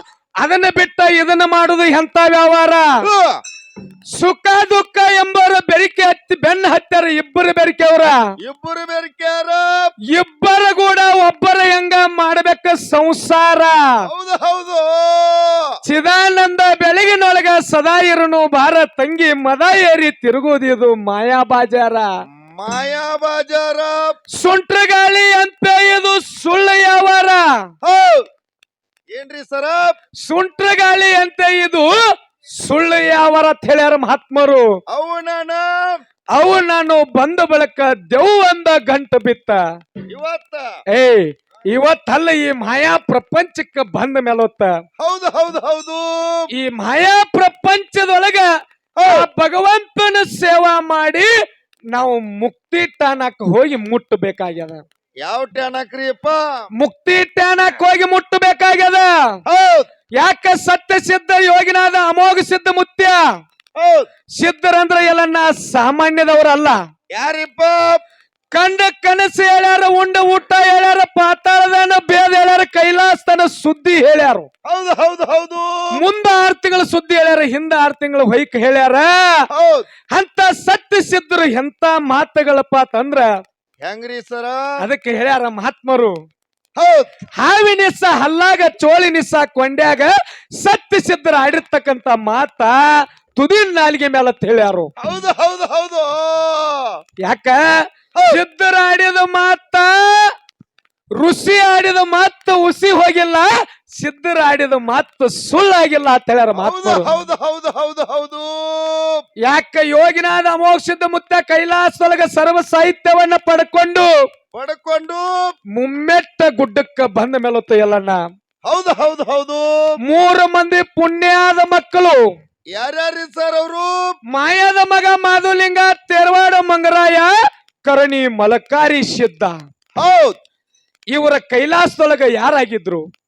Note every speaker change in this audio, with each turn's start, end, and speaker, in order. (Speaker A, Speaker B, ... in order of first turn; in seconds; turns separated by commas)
Speaker A: 0.4-2.9, Speaker B: 3.0-3.4, Speaker A: 4.1-8.2, Speaker B: 8.4-9.8, Speaker A: 10.1-13.9, Speaker B: 14.0-15.6, Speaker A: 15.8-22.1, Speaker B: 22.4-24.1, Speaker A: 24.4-27.4, Speaker B: 27.8-28.2, Speaker B: 29.1-29.9, Speaker A: 30.2-31.9, Speaker A: 32.6-34.6, Speaker B: 34.9-36.0, Speaker A: 36.3-39.6, Speaker B: 40.1-40.7, Speaker A: 40.9-44.7, Speaker B: 45.0-46.5, Speaker A: 46.6-48.5, Speaker B: 49.0-49.3, Speaker A: 49.0-51.3, Speaker A: 51.9-54.8, Speaker B: 55.2-56.4, Speaker A: 56.8-59.1, Speaker B: 59.5-59.9, Speaker A: 60.2-63.2, Speaker B: 63.8-64.1, Speaker A: 64.4-66.8, Speaker B: 67.1-68.0, Speaker A: 68.5-74.5, Speaker B: 74.6-75.9, Speaker A: 76.0-79.4, Speaker B: 79.5-79.8, Speaker A: 80.1-83.3, Speaker B: 83.8-84.6, Speaker A: 84.8-86.1, Speaker B: 86.8-87.1, Speaker A: 87.4-92.8, Speaker A: 93.3-94.9, Speaker B: 95.0-96.9, Speaker A: 97.2-97.6, Speaker A: 98.3-100.3, Speaker A: 101.2-107.1, Speaker B: 106.6-109.2, Speaker A: 109.4-114.1, Speaker B: 114.5-115.2, Speaker A: 115.8-118.2, Speaker B: 118.7-119.6, Speaker A: 120.1-122.2, Speaker B: 122.7-124.0, Speaker A: 124.3-127.3, Speaker A: 127.8-129.6, Speaker B: 130.0-130.4, Speaker A: 131.1-133.0